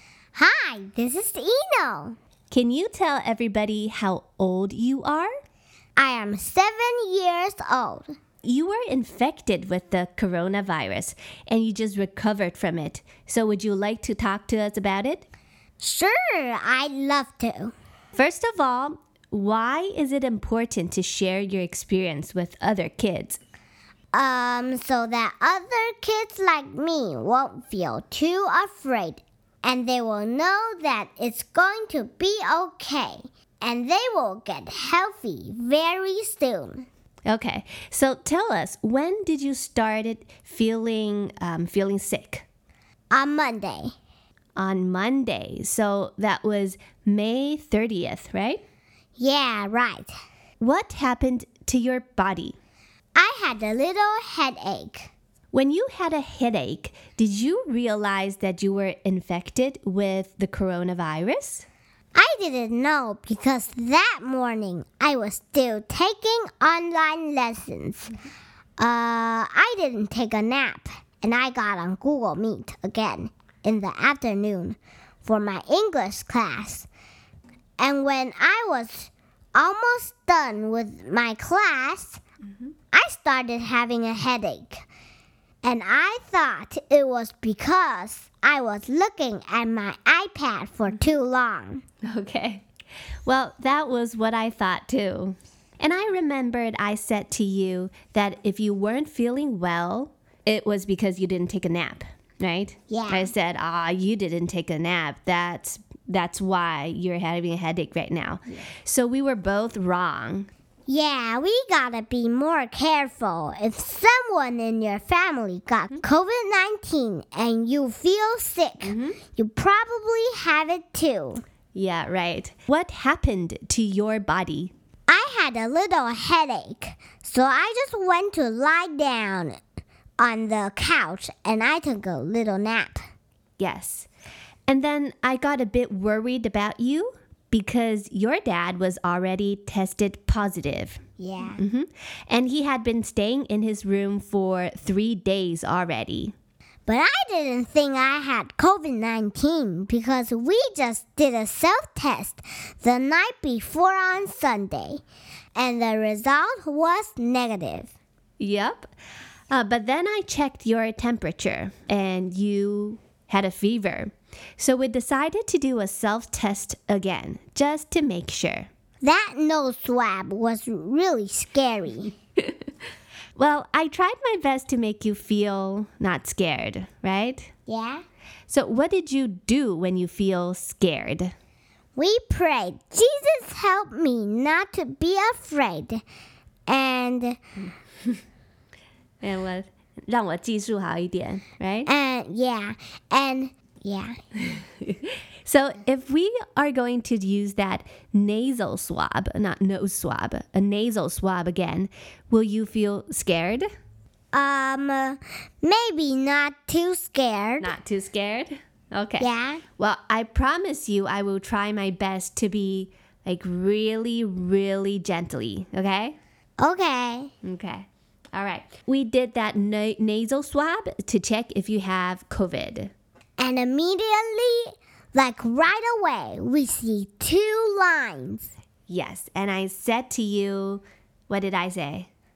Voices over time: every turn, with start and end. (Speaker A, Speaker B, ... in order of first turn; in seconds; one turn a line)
Speaker A: 0.3-2.1
Speaker B: 2.5-5.3
Speaker A: 6.0-8.1
Speaker B: 8.4-15.2
Speaker A: 15.8-17.7
Speaker B: 18.1-23.4
Speaker A: 24.1-36.9
Speaker B: 37.2-42.4
Speaker A: 43.1-43.9
Speaker B: 44.5-48.6
Speaker A: 49.2-50.1
Speaker B: 50.6-52.5
Speaker A: 53.1-55.1
Speaker B: 55.5-61.6
Speaker A: 62.1-68.1
Speaker A: 68.8-76.9
Speaker A: 77.8-82.2
Speaker A: 82.9-84.8
Speaker A: 85.6-91.8
Speaker B: 92.0-92.6
Speaker B: 93.2-110.5
Speaker A: 102.9-103.3
Speaker A: 110.9-121.4
Speaker B: 118.8-119.2
Speaker B: 121.7-124.7
Speaker A: 125.1-129.6
Speaker A: 130.2-133.1
Speaker B: 133.6-134.1
Speaker B: 134.7-141.0
Speaker A: 141.2-141.6
Speaker B: 141.6-146.3
Speaker A: 146.9-155.0
Speaker A: 155.6-157.9
Speaker B: 158.4-158.9
Speaker B: 159.5-168.7
Speaker A: 169.0-172.1
Speaker B: 173.3-177.5
Speaker A: 177.7-178.0
Speaker B: 178.5-181.3
Speaker A: 181.9-186.0
Speaker A: 186.7-187.4
Speaker B: 189.2-191.9
Speaker A: 191.8-194.1
Speaker B: 194.4-203.7
Speaker A: 204.3-207.7
Speaker B: 207.6-209.3
Speaker A: 209.2-209.6
Speaker B: 209.8-216.1
Speaker A: 216.6-217.3
Speaker B: 217.4-222.9
Speaker A: 223.4-228.5
Speaker B: 228.9-232.1